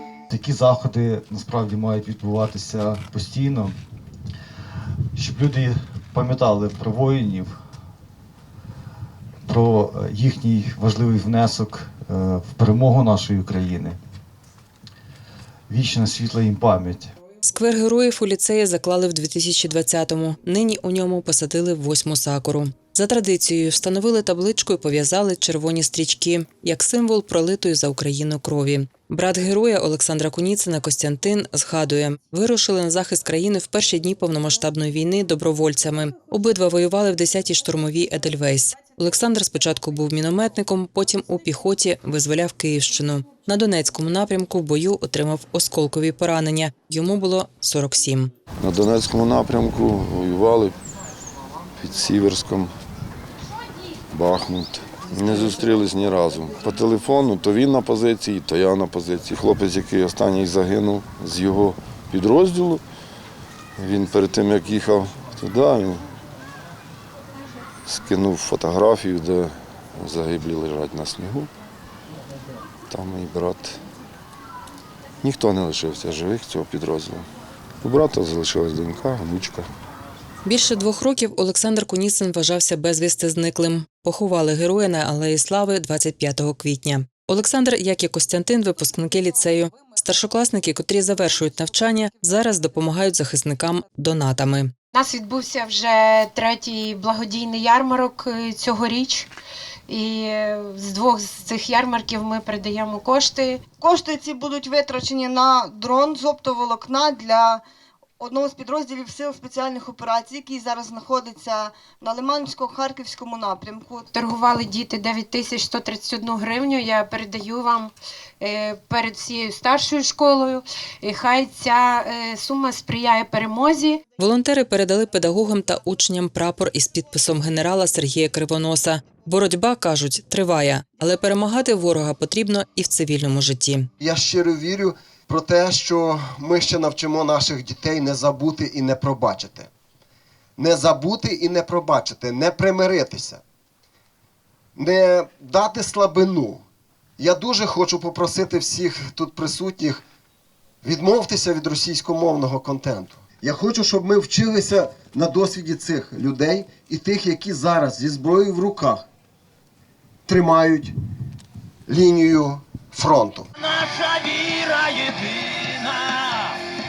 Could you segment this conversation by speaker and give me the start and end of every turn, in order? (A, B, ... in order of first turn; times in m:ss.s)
0:00.3-0:03.8 A
0:05.2-0:07.6 A
0:09.4-0:14.0 A
0:15.7-0:17.1 A
0:17.4-0:48.3 B
0:48.6-0:50.8 C
0:51.8-0:52.7 C
0:54.1-1:02.8 C
1:03.8-1:06.0 C
1:07.9-1:11.5 C
1:12.9-1:13.8 C
1:15.2-1:17.3 C
1:17.8-1:19.7 C
1:20.4-1:34.7 B
1:34.9-1:39.3 D
1:39.9-1:43.6 D
1:43.8-1:47.6 E
1:48.2-1:54.1 E
1:54.1-2:04.0 D
2:04.2-2:13.9 B
2:14.0-2:19.7 F
2:20.6-2:23.4 F
2:24.8-2:26.6 F
2:27.2-2:30.0 F
2:30.8-2:39.1 F
2:40.3-2:40.9 F
2:41.9-2:43.5 F
2:43.6-2:46.6 G